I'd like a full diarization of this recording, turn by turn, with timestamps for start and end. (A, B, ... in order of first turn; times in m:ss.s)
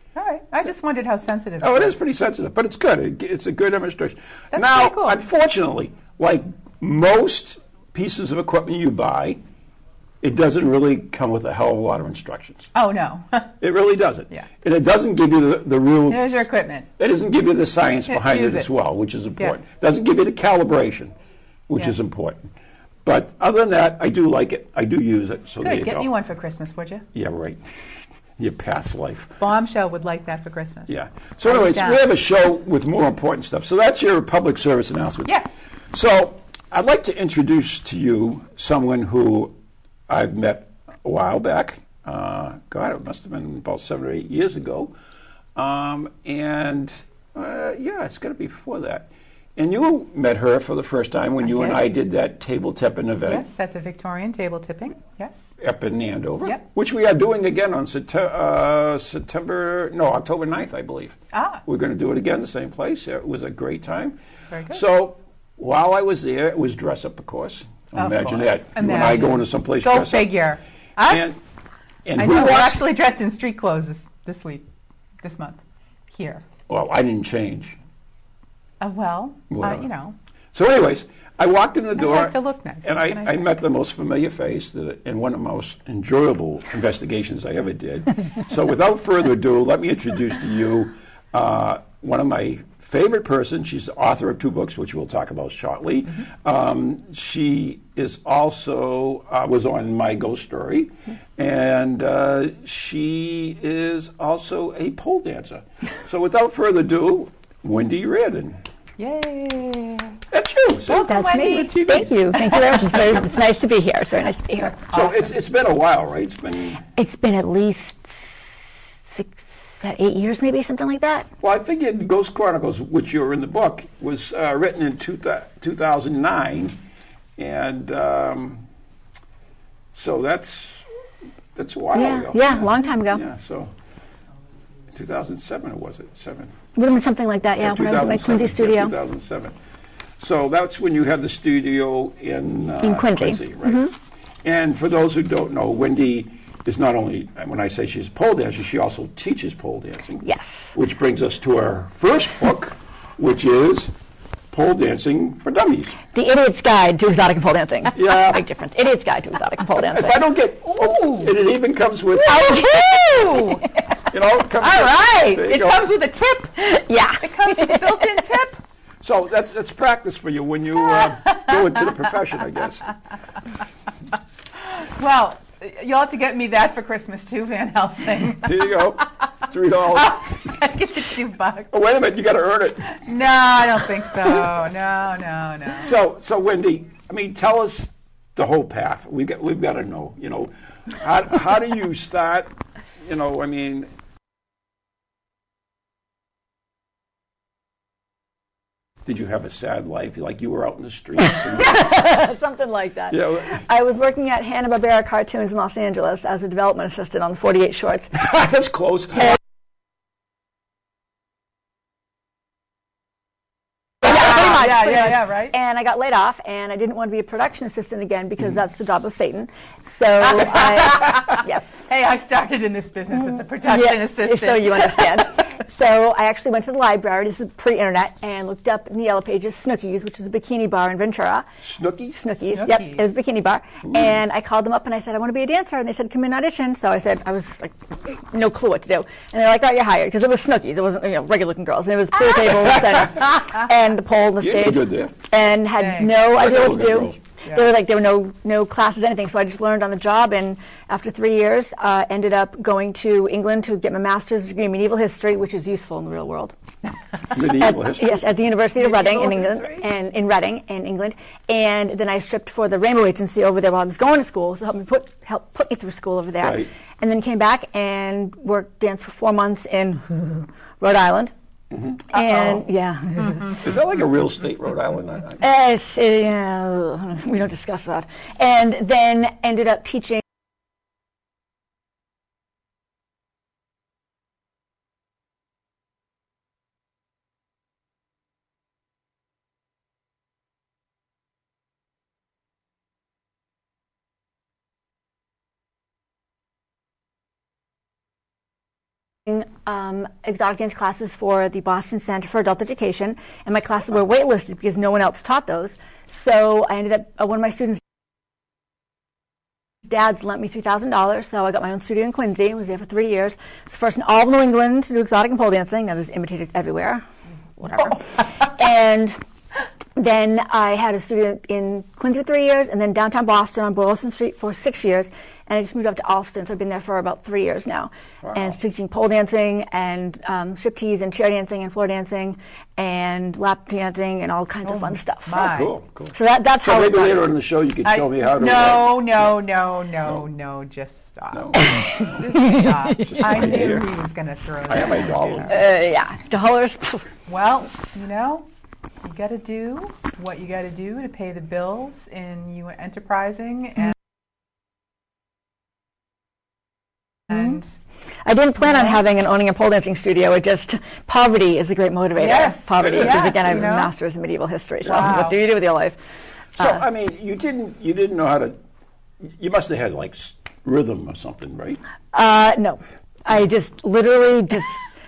0:00.2-0:02.0 A
0:01.6-0:09.4 B
0:04.5-0:05.2 A
0:10.2-0:12.7 B
0:12.7-0:13.5 A
0:13.6-0:16.5 B
0:16.1-0:16.9 A
0:17.0-0:21.1 B
0:18.1-0:18.7 A
0:21.7-0:22.5 B
0:23.0-0:26.1 B
0:25.6-0:27.0 A
0:27.1-0:27.6 B
0:28.4-0:29.4 B
0:29.4-0:30.9 A
0:30.9-0:35.4 B
0:31.4-0:32.1 A
0:35.2-0:35.6 A
0:35.9-0:39.5 B
0:40.1-0:44.9 B
0:45.6-0:53.5 B
0:51.4-0:51.8 A
0:53.2-0:55.5 A
0:55.6-1:04.2 B
1:01.3-1:01.6 A
1:04.5-1:04.8 A
1:04.7-1:10.4 B
1:08.0-1:11.4 A
1:11.1-1:11.4 B
1:12.1-1:12.9 B
1:12.2-1:14.7 A
1:15.2-1:16.4 A
1:16.7-1:17.8 B
1:18.8-1:20.2 A
1:19.5-1:19.9 B
1:20.5-1:48.6 B
1:22.0-1:23.6 A
1:49.0-1:50.2 A
1:50.3-1:51.1 B
1:50.8-1:53.0 A
1:51.0-1:54.9 C
1:51.8-1:52.1 B
1:54.9-1:56.8 B
1:57.0-2:01.3 C
2:01.4-2:06.8 B
2:07.4-2:08.6 B
2:09.9-2:10.8 B
2:11.6-2:13.7 B
2:11.9-2:13.2 C
2:14.9-2:16.5 B
2:16.8-2:18.9 C
2:17.6-2:19.6 B
2:20.2-2:23.9 B
2:22.8-2:23.9 C
2:24.4-2:33.9 B
2:30.2-2:30.8 C
2:34.5-2:36.0 B
2:36.1-2:40.2 C
2:37.9-2:38.4 B
2:39.8-2:42.8 B
2:40.7-2:41.3 A
2:42.1-2:44.0 A
2:44.1-2:45.9 B
2:44.5-2:48.6 A
2:46.6-2:48.2 C
2:49.0-2:52.9 B
2:51.0-2:51.6 A
2:54.6-2:58.8 A
2:58.4-3:00.4 B
2:59.9-3:01.7 A
3:01.7-3:03.1 B
3:02.9-3:05.9 A
3:05.8-3:12.5 B
3:13.0-3:13.9 B
3:19.0-3:22.0 B
3:21.6-3:28.3 C
3:23.1-3:23.6 B
3:28.2-3:29.4 B
3:34.0-3:35.6 A
3:34.0-3:41.6 C
3:40.3-3:45.2 A
3:43.4-3:51.5 C
3:51.6-3:52.2 B
3:52.2-4:16.5 C
3:52.5-3:53.0 A
3:53.9-3:54.2 B
4:02.6-4:03.3 B
4:04.4-4:05.2 B
4:05.8-4:06.1 A
4:06.2-4:07.2 B
4:17.3-4:18.2 B
4:17.4-4:31.3 C
4:18.8-4:19.8 A
4:26.4-4:26.7 B
4:31.7-4:32.4 B
4:32.1-4:33.7 C
4:33.6-4:35.4 B
4:35.4-4:40.2 C
4:59.3-5:07.8 C
5:09.9-5:17.0 C
5:17.6-5:19.2 C
5:20.0-5:35.5 C
5:28.2-5:28.6 B
5:34.6-5:35.7 A
5:35.3-5:39.2 B
5:36.1-5:37.3 C
5:37.8-5:45.6 A
5:41.3-5:42.4 B
5:41.7-5:43.4 C
5:43.0-5:43.9 B
5:44.7-5:45.6 B
5:45.5-5:47.0 C
5:47.3-5:48.5 A
5:49.0-5:53.9 A
5:57.3-5:57.6 C
5:58.2-6:06.0 C
6:02.2-6:03.9 A
6:02.8-6:03.8 B
6:04.8-6:05.2 B
6:04.9-6:05.4 A
6:06.6-6:08.6 B
6:09.2-6:11.8 B
6:12.1-6:14.8 C